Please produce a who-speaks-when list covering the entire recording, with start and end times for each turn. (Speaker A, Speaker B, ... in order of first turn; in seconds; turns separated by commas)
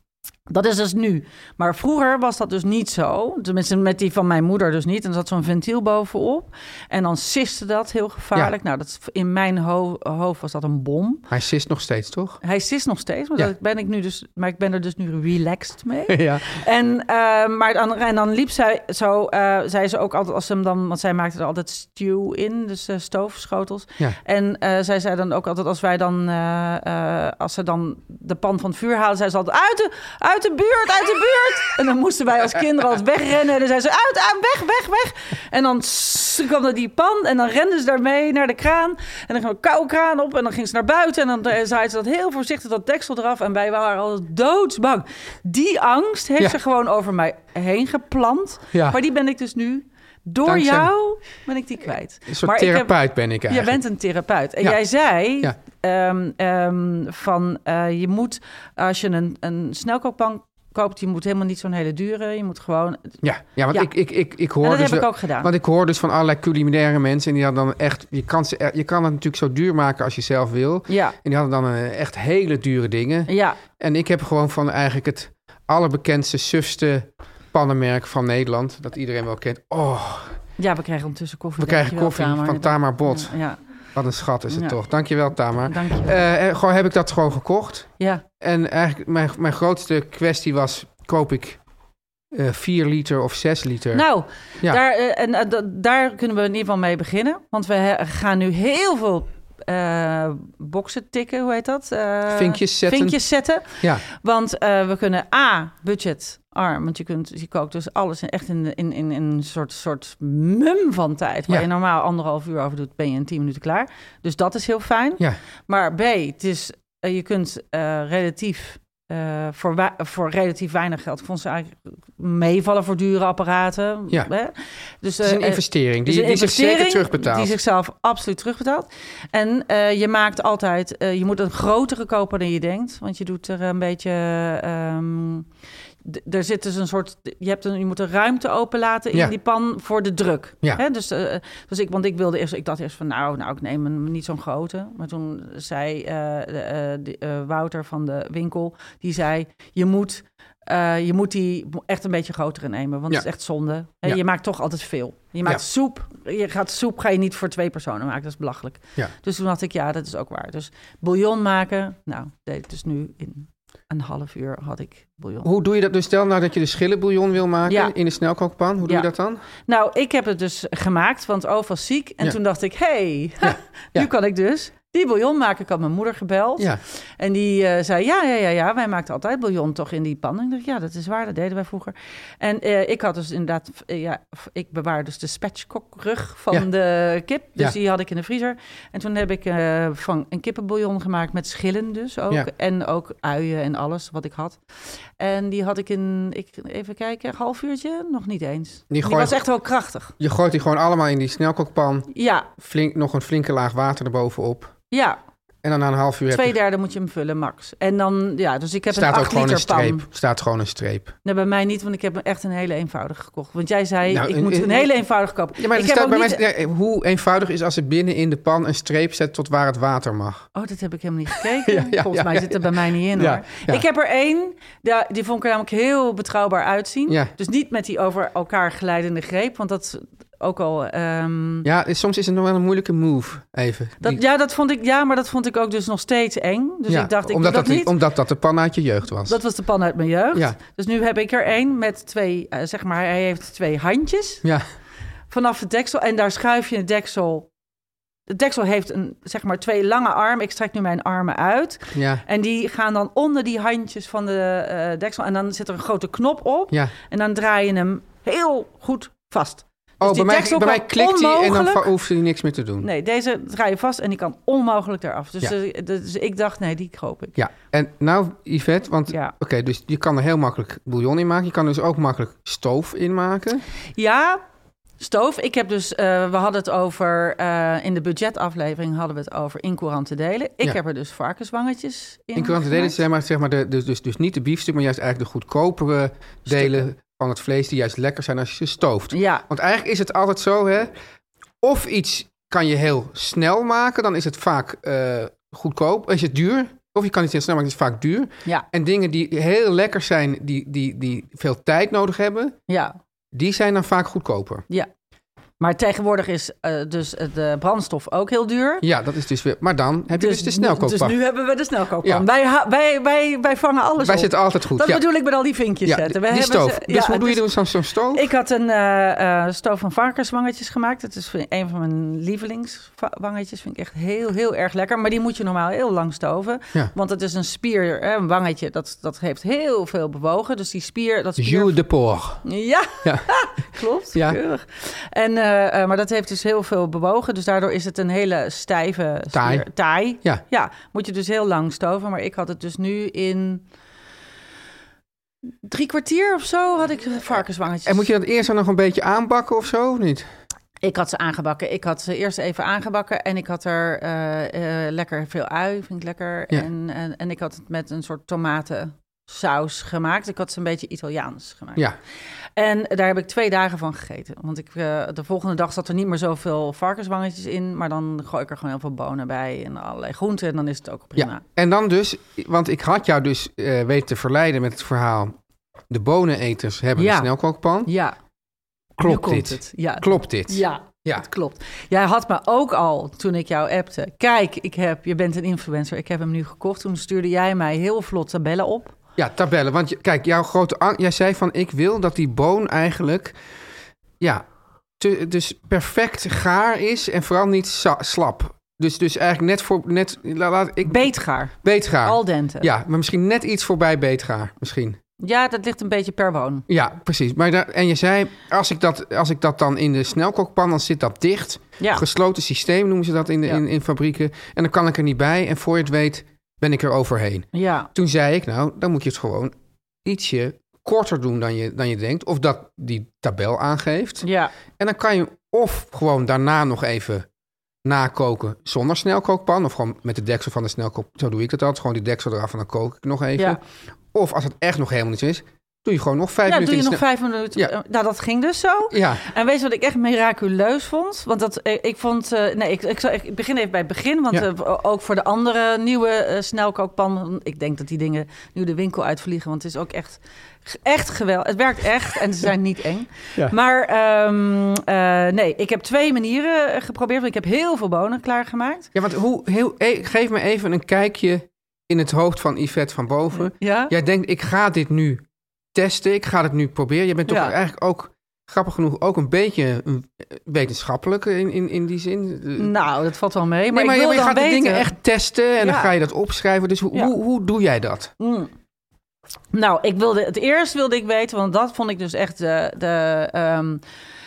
Speaker A: 0.5-11.3, Speaker B: 11.3-12.4, Speaker A: 12.4-63.9, Speaker B: 16.1-16.5, Speaker B: 48.7-49.0, Speaker B: 50.5-50.9, Speaker B: 52.3-53.8, Speaker B: 63.2-80.4, Speaker A: 64.6-65.5, Speaker A: 70.9-71.2, Speaker A: 73.3-73.6, Speaker A: 80.6-83.6, Speaker B: 81.6-83.3, Speaker B: 84.0-91.6, Speaker A: 84.5-84.8, Speaker A: 85.7-86.2, Speaker A: 88.0-88.2, Speaker B: 92.3-94.0, Speaker A: 93.9-135.5, Speaker B: 102.3-103.2, Speaker B: 125.2-127.6, Speaker A: 136.0-165.5, Speaker B: 165.4-169.4, Speaker A: 167.7-167.9, Speaker A: 169.7-194.6, Speaker B: 173.4-174.1, Speaker A: 195.2-200.1, Speaker B: 198.9-199.4, Speaker B: 200.2-204.8, Speaker A: 202.1-202.5, Speaker A: 204.9-205.2, Speaker B: 205.6-206.6, Speaker A: 206.3-210.1, Speaker B: 208.9-211.1, Speaker A: 211.2-216.4, Speaker B: 214.1-214.9, Speaker B: 215.6-220.5, Speaker A: 220.5-231.7, Speaker B: 221.6-223.8, Speaker B: 231.6-234.2, Speaker A: 234.0-237.9, Speaker B: 236.9-239.4, Speaker A: 239.3-244.4, Speaker A: 245.3-247.5, Speaker A: 248.3-261.9, Speaker B: 251.9-252.2, Speaker B: 260.0-262.9, Speaker A: 262.8-267.4, Speaker B: 267.4-273.6, Speaker A: 273.9-274.4, Speaker A: 275.0-283.0, Speaker B: 282.4-290.9, Speaker A: 286.5-286.8, Speaker A: 289.1-289.4, Speaker B: 291.6-302.6, Speaker A: 302.7-302.9, Speaker B: 303.3-304.7, Speaker A: 305.6-308.8, Speaker B: 308.8-311.2, Speaker A: 310.1-317.5, Speaker B: 314.0-315.1, Speaker B: 315.8-318.3, Speaker A: 318.1-331.8, Speaker B: 331.4-332.4, Speaker A: 332.4-343.6, Speaker B: 333.0-333.3, Speaker B: 334.1-334.4, Speaker B: 339.3-339.7, Speaker A: 345.6-348.1, Speaker B: 347.9-350.3, Speaker A: 350.8-361.9, Speaker A: 362.6-371.4, Speaker B: 371.2-375.4, Speaker B: 375.9-377.9, Speaker A: 377.0-377.3, Speaker A: 377.9-378.1, Speaker B: 379.0-381.2, Speaker A: 379.0-389.0, Speaker B: 389.2-393.4, Speaker B: 395.0-405.0, Speaker A: 400.9-402.7, Speaker A: 405.2-406.7, Speaker B: 406.7-424.3, Speaker A: 417.5-417.9, Speaker A: 424.2-424.5, Speaker B: 424.8-427.3, Speaker B: 427.8-433.6, Speaker B: 434.1-437.7, Speaker A: 436.5-458.9, Speaker B: 438.9-439.2, Speaker B: 458.9-472.8, Speaker A: 463.4-463.9, Speaker A: 467.3-467.5, Speaker A: 472.6-474.9, Speaker B: 473.7-478.1, Speaker A: 475.6-475.9, Speaker A: 478.2-478.5, Speaker A: 479.5-483.8